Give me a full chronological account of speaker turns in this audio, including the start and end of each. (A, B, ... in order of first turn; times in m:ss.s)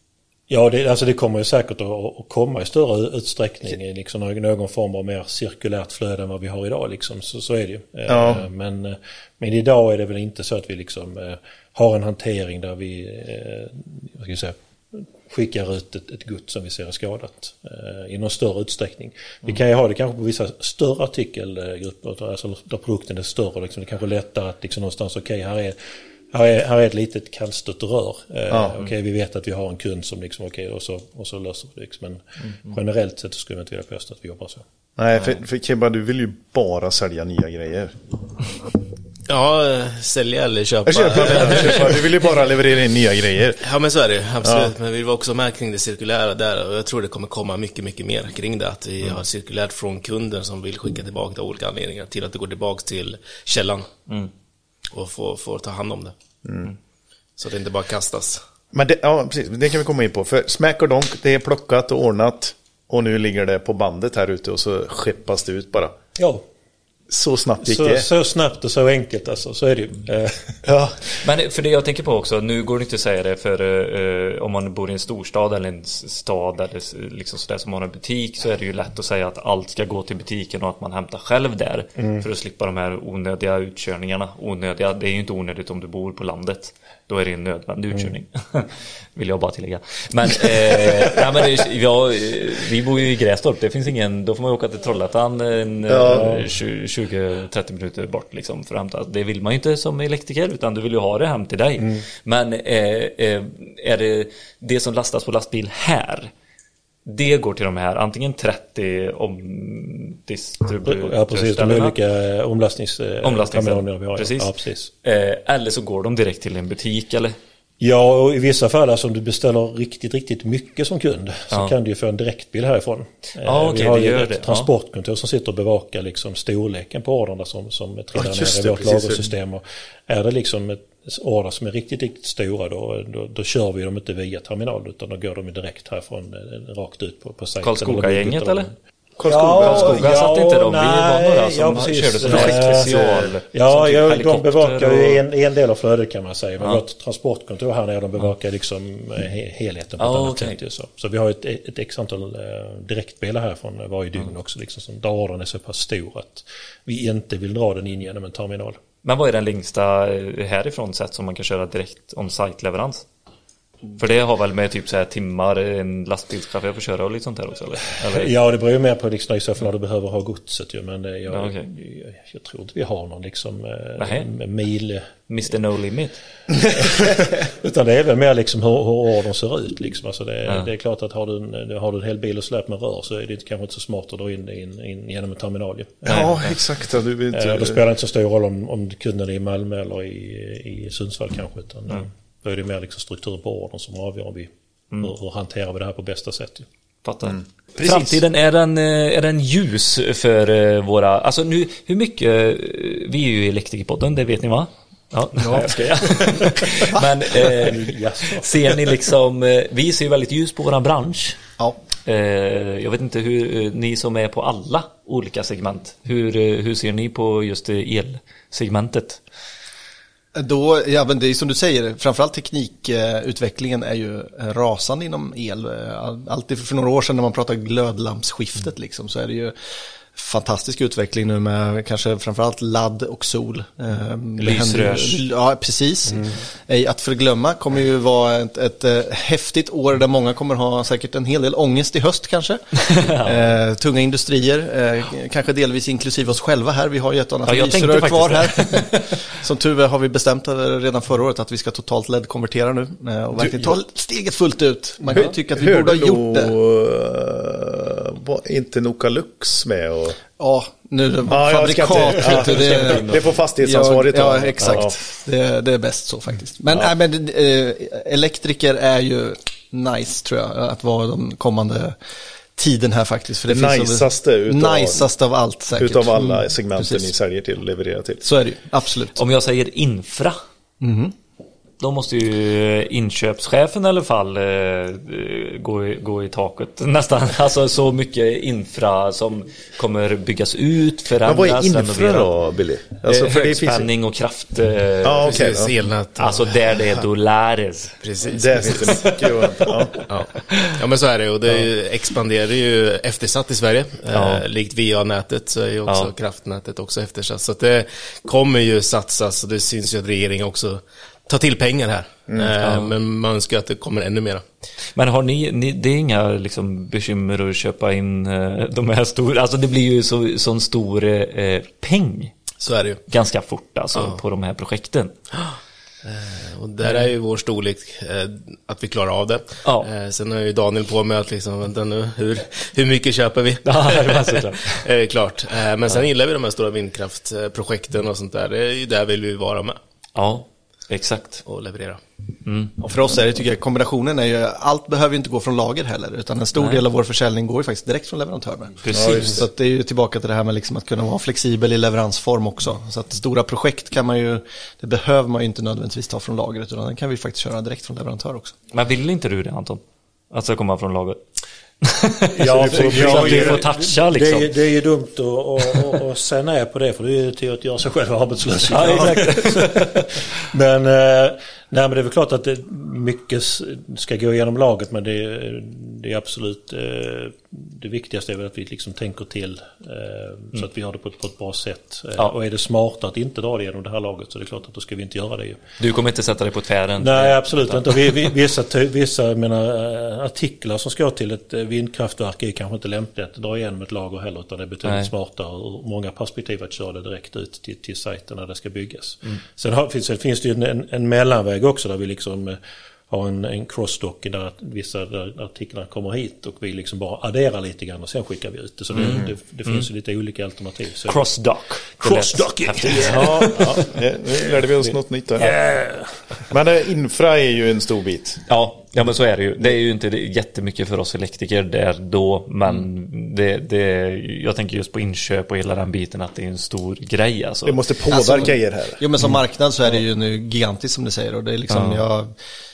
0:00.5-0:25.8 A
0:08.1-0:08.4 B
0:26.3-0:34.6 A
0:28.5-0:28.8 B
0:35.0-0:38.0 B
0:39.3-0:42.2 C
0:40.9-0:43.6 B
0:43.6-0:53.9 C
0:44.4-0:44.7 B
0:54.9-0:56.2 C
0:56.4-0:56.7 B
0:57.4-0:58.4 C
0:58.7-1:06.0 B
1:06.2-1:06.4 A
1:07.1-1:08.1 B
1:07.6-1:10.7 A
1:10.6-1:11.0 B
1:11.2-1:46.3 D
1:22.0-1:22.3 A
1:35.9-1:36.5 B
1:36.0-1:36.5 A
1:41.8-1:42.1 A
1:47.1-1:52.0 D
1:50.8-1:54.9 A
1:53.2-1:57.4 D
1:57.8-2:38.8 A
2:03.4-2:04.7 D
2:08.2-2:09.3 B
2:17.6-2:18.7 D
2:19.2-2:20.2 B
2:19.6-2:25.2 D
2:22.3-2:23.3 B
2:30.0-2:30.6 D
2:39.0-2:43.0 D
2:44.0-2:48.3 D
2:48.0-2:55.1 A
2:51.3-2:51.7 D
2:54.0-2:54.3 D
2:55.3-2:56.2 D
2:56.6-3:06.4 A
3:06.0-3:07.8 B
3:06.1-3:06.6 D
3:07.3-3:16.7 A
3:17.0-3:31.4 D
3:17.3-3:18.2 B
3:25.4-3:26.2 E
3:26.8-3:27.0 E
3:27.4-3:29.0 A
3:32.1-3:39.2 D
3:40.4-3:49.5 E
3:50.2-4:16.5 E
3:54.4-3:55.2 D
3:56.1-3:56.4 A
4:02.8-4:03.4 D
4:07.5-4:09.2 D
4:13.4-4:13.8 B
4:15.1-4:20.2 B
4:20.4-4:32.0 E
4:21.3-4:25.0 B
4:22.4-4:23.3 D
4:32.6-4:37.1 E
4:33.5-4:35.1 B
4:35.7-4:38.3 B
4:38.2-4:39.2 E
4:39.2-4:40.4 D
4:40.8-4:41.1 E
4:41.8-4:52.3 D
4:51.2-4:53.9 B
4:53.0-4:55.5 D
4:55.0-4:55.7 B
4:55.3-4:57.0 C
4:56.2-4:58.0 D
4:58.0-4:59.3 C
4:58.2-5:00.0 B
4:58.9-5:00.7 D
5:00.1-5:14.4 C
5:04.1-5:04.4 D
5:12.6-5:12.9 D
5:15.0-5:22.4 D
5:22.6-5:23.0 C
5:23.1-5:25.2 D
5:24.0-5:24.2 C
5:25.3-5:39.8 C
5:26.8-5:27.1 D
5:33.6-5:34.8 D
5:40.2-5:41.4 D
5:41.4-5:42.0 C
5:42.4-5:42.8 D
5:42.8-5:58.5 E
5:46.6-5:46.8 D
5:48.8-5:49.4 D
5:48.9-5:49.4 B
5:58.7-6:01.2 D
6:01.8-6:04.5 D
6:02.4-6:25.6 A
6:02.5-6:03.7 B
6:08.7-6:10.0 D
6:08.8-6:09.1 B
6:25.8-6:28.1 D
6:27.0-6:51.3 A
6:34.8-6:35.1 D
6:48.9-6:49.9 D
6:49.0-6:49.3 B
6:51.1-6:53.9 D
6:51.9-6:54.0 A
6:53.1-6:55.6 B
6:54.6-6:56.5 A
6:56.5-6:58.4 B
6:58.5-7:07.8 D
7:07.6-7:09.1 B
7:08.1-7:12.3 E
7:11.7-7:12.0 D